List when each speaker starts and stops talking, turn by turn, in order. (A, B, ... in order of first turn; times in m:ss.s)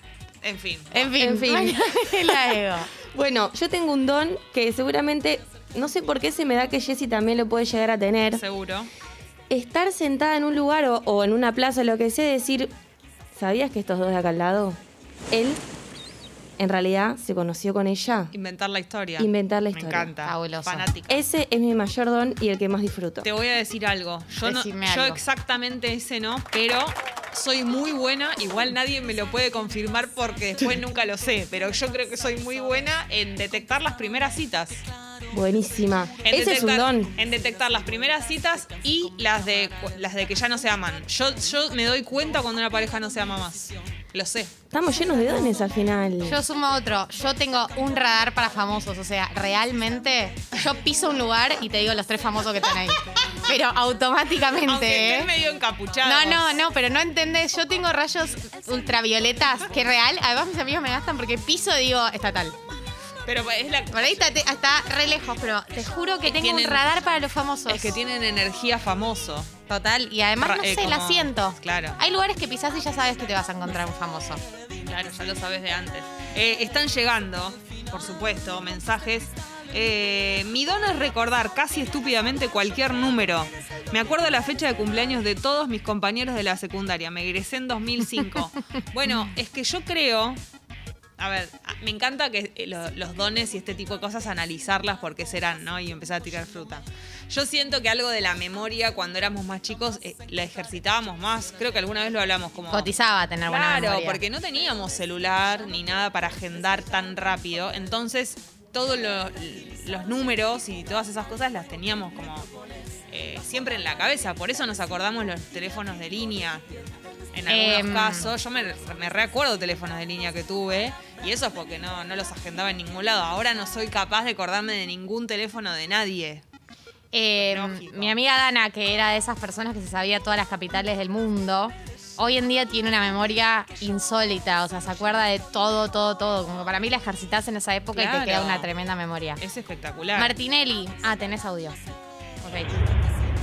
0:00.4-0:01.1 A
0:00.9-0:02.9 B
0:01.2-0:02.6 C
0:03.1-0:08.4 C
0:08.3-0:08.9 A
0:09.5-0:12.7 C
0:13.4-0:14.8 C
0:15.3-0:15.6 C
0:16.6-0:18.3 C
0:18.3-0:21.2 A
0:19.2-0:20.1 C
0:20.2-0:20.9 B
0:21.1-0:23.3 C
0:23.2-0:34.8 A
0:24.4-0:25.2 B
0:35.3-0:37.1 C
0:36.2-0:44.5 A
0:44.7-0:46.4 C
0:46.2-0:55.3 B
0:54.7-0:56.4 A
0:56.0-1:02.6 B
1:03.3-1:04.3 A
1:03.9-1:08.0 B
1:06.2-1:06.8 A
1:07.7-1:09.6 A
1:09.7-1:14.4 B
1:10.4-1:12.0 A
1:14.8-1:30.4 A
1:31.2-1:42.9 A
1:42.7-1:44.2 B
1:43.5-1:52.5 A
1:53.1-1:56.6 A
1:57.3-2:06.4 A
1:57.5-1:58.3 B
2:07.1-2:19.4 B
2:07.4-2:08.2 A
2:17.9-2:18.7 A
2:19.4-2:20.3 A
2:20.2-2:21.8 B
2:22.4-2:22.7 B